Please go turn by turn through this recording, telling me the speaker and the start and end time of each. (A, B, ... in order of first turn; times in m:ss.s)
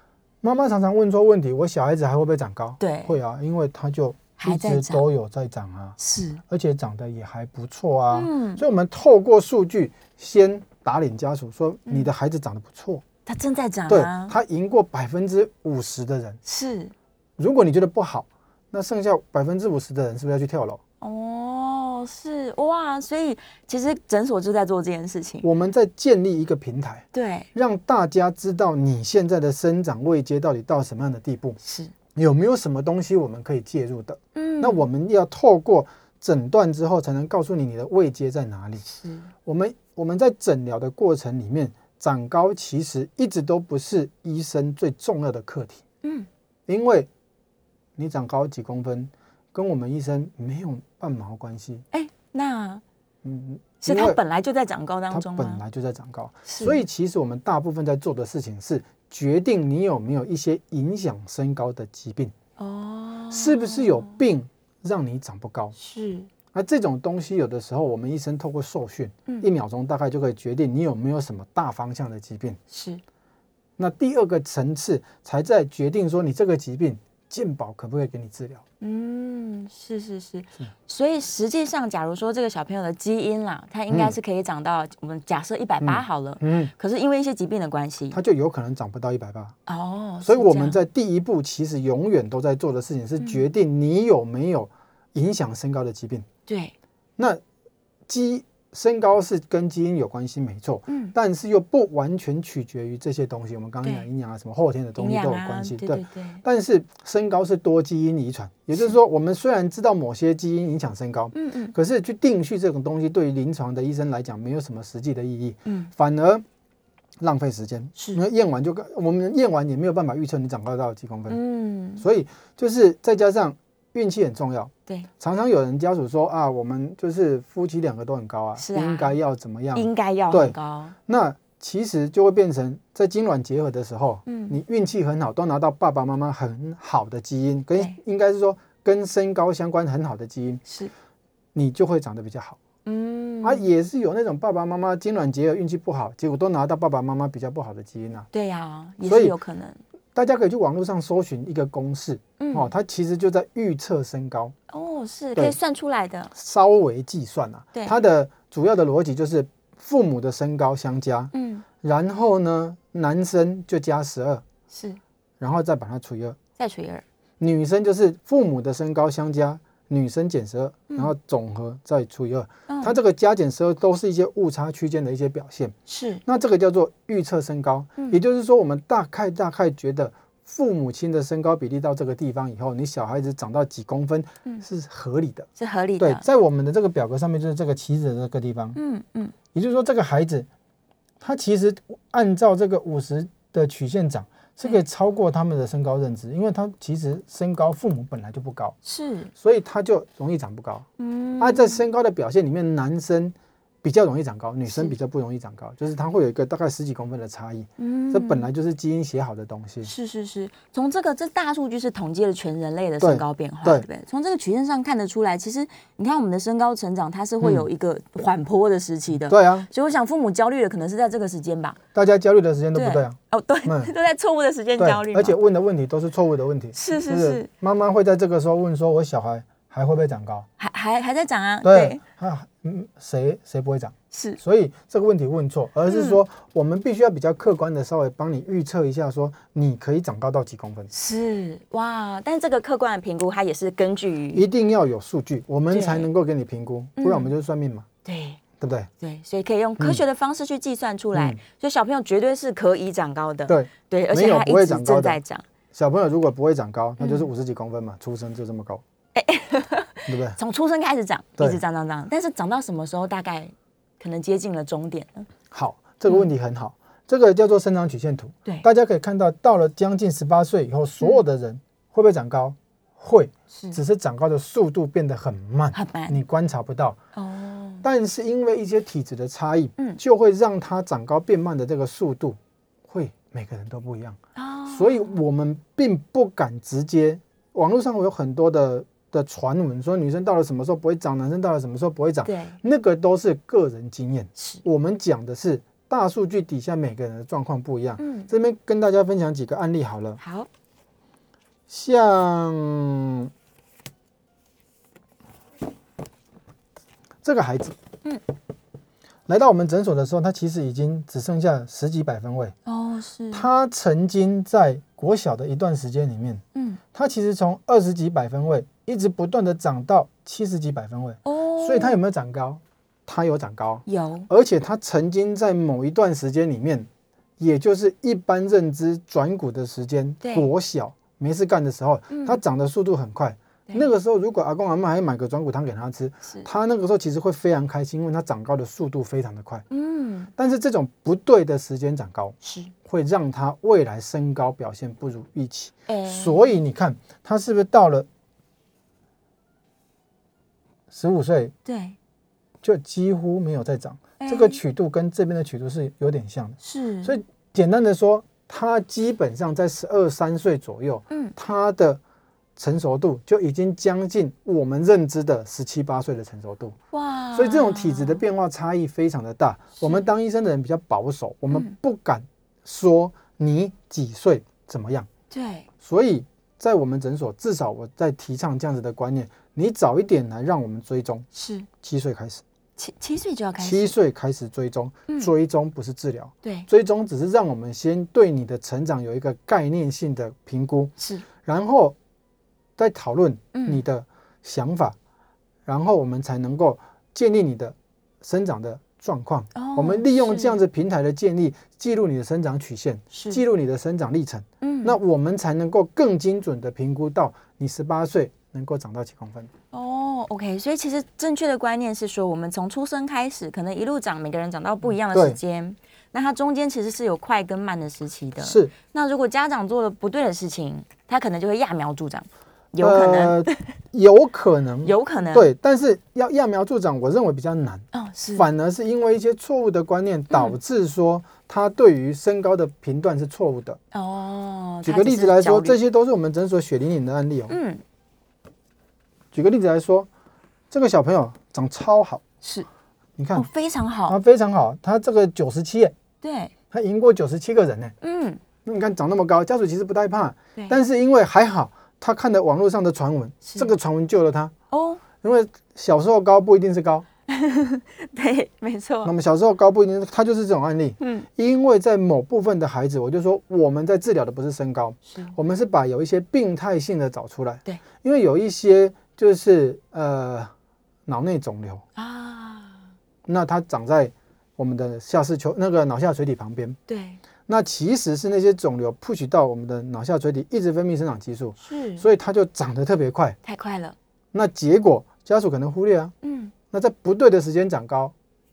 0:00.4-0:06.0 A
0:02.8-0:03.2 B
0:04.4-0:05.1 B
0:06.0-0:06.4 B
0:06.5-0:13.0 A
0:08.1-0:08.6 B
0:13.3-0:14.4 B
0:13.9-0:16.4 A
0:16.5-0:16.9 B
0:17.4-0:20.8 A
0:21.0-0:25.5 B
0:25.4-0:31.6 A
0:27.1-0:27.5 B
0:31.6-0:31.9 B
0:32.2-0:38.9 A
0:34.4-0:34.9 B
0:38.9-0:39.3 B
0:39.4-0:45.8 A
0:46.7-0:47.1 A
0:48.0-0:51.8 A
0:51.9-0:52.8 B
0:53.2-0:54.2 A
0:53.8-0:55.6 B
0:55.1-1:02.3 A
0:56.5-0:56.8 B
1:02.6-1:04.2 B
1:03.3-1:05.8 A
1:05.8-1:06.3 B
1:06.5-1:12.6 A
1:12.7-1:13.0 B
1:13.8-1:18.6 A
1:18.8-1:28.2 B
1:23.9-1:24.2 A
1:25.8-1:26.7 A
1:28.1-1:29.6 A
1:29.7-1:30.8 B
1:30.2-1:36.3 A
1:36.5-1:36.7 B
1:38.1-1:56.4 A
1:40.9-1:41.2 B
1:45.0-1:46.4 B
1:51.4-1:51.7 B
1:55.7-1:55.9 B
1:57.2-2:01.4 A
1:58.0-1:58.2 B
2:01.3-2:02.0 B
2:02.0-2:10.6 A
2:08.6-2:09.1 B
2:09.7-2:11.0 B
2:11.1-2:20.6 A
2:14.3-2:14.6 B
2:20.6-2:20.9 B
2:21.6-2:22.6 A
2:22.9-2:23.6 B
2:23.4-2:28.3 A
2:28.3-2:29.8 B
2:29.0-2:29.4 A
2:30.2-2:34.6 A
2:32.4-2:32.7 B
2:34.7-2:36.3 B
2:36.3-2:44.4 A
2:41.3-2:41.6 B
2:44.7-2:45.0 B
2:45.4-2:46.4 A
2:46.6-2:47.0 B
2:47.4-3:08.8 A
2:52.7-2:53.0 B
2:55.9-2:56.2 B
3:05.6-3:06.2 B
3:08.8-3:09.3 B
3:09.5-3:10.5 A
3:11.2-3:18.8 A
3:18.8-3:19.3 B
3:19.4-3:20.9 A
3:21.0-3:21.8 B
3:21.4-3:29.9 A
3:24.7-3:25.0 B
3:27.8-3:28.5 B
3:29.8-3:41.8 B
3:33.0-3:33.9 A
3:37.4-3:37.7 A
3:39.3-3:39.7 A
3:42.0-3:43.9 A
3:42.7-3:45.4 B
3:44.8-3:50.5 A
3:46.7-3:47.5 B
3:50.6-3:52.0 B
3:51.6-4:00.9 A
3:54.1-3:54.4 B
3:55.9-3:56.2 B
4:00.9-4:04.4 B
4:04.3-4:07.9 A
4:05.7-4:06.1 B
4:07.0-4:07.3 B
4:08.0-4:08.4 B
4:08.6-4:08.9 A
4:09.0-4:15.4 B
4:11.1-4:11.4 A
4:13.5-4:15.2 A
4:15.7-4:18.8 A
4:17.0-4:17.3 B
4:19.2-4:25.3 B
4:20.1-4:20.4 A
4:25.5-4:37.0 A
4:33.5-4:33.8 B
4:35.7-4:36.2 B
4:37.2-4:37.8 B
4:37.8-5:00.2 A
4:44.4-4:45.2 B
4:52.2-4:52.6 B
4:54.4-4:54.6 B
4:58.0-4:58.3 B
5:00.2-5:00.5 B
5:01.7-5:03.3 A
5:07.2-5:07.8 A
5:09.3-5:12.6 A
5:12.7-5:13.5 B
5:13.3-5:16.4 A
5:16.6-5:16.8 B
5:16.9-5:39.6 A
5:21.2-5:22.0 B
5:23.9-5:24.3 B
5:30.2-5:30.5 B
5:32.1-5:32.4 B
5:39.7-5:40.3 B
5:40.4-5:48.1 A
5:42.4-5:42.7 B
5:45.9-5:46.6 B
5:50.9-5:51.5 A
5:51.6-5:52.0 B
5:52.6-6:02.0 A
5:54.2-5:54.6 B
5:56.6-5:57.2 B
6:02.6-6:06.8 A
6:06.9-6:08.2 B
6:07.3-6:15.1 A
6:09.8-6:10.1 B
6:15.3-6:15.7 B
6:15.8-6:21.3 A
6:21.3-6:21.7 B
6:21.8-6:22.4 A
6:22.8-6:24.0 B
6:23.6-6:30.9 A
6:31.0-6:31.2 B
6:31.4-6:32.0 A
6:32.8-6:35.0 A
6:33.5-6:33.8 B
6:35.7-6:49.5 A
6:39.6-6:40.6 B
6:43.1-6:43.4 B
6:44.6-6:45.0 B
6:49.7-7:03.6 B
6:55.1-6:55.4 A
6:58.4-6:58.7 A
7:02.8-7:13.8 A
7:04.8-7:05.5 B
7:07.9-7:08.5 B
7:10.3-7:10.6 B
7:13.9-7:15.8 B
7:14.8-7:17.6 A
7:17.5-7:17.8 B
7:19.3-7:20.1 A
7:20.7-7:22.2 A
7:22.4-7:22.7 B
7:23.2-7:23.5 A
7:23.3-7:24.2 B
7:24.1-7:26.0 A
7:26.2-7:26.5 B
7:26.7-7:28.0 A
7:28.0-7:28.4 B
7:28.6-7:34.5 A
7:33.4-7:33.7 B
7:34.7-7:35.0 B
7:35.2-7:37.0 A
7:37.3-7:39.1 B
7:39.0-7:50.5 A
7:41.0-7:41.3 B
7:45.1-7:45.4 B
7:51.1-7:51.8 A
7:52.0-7:52.8 B
7:53.3-7:56.8 A
7:56.9-7:57.2 B
7:57.5-8:03.4 A
8:01.6-8:02.0 B
8:03.4-8:04.0 B
8:04.3-8:06.1 A
8:06.2-8:06.5 B
8:06.7-8:08.1 A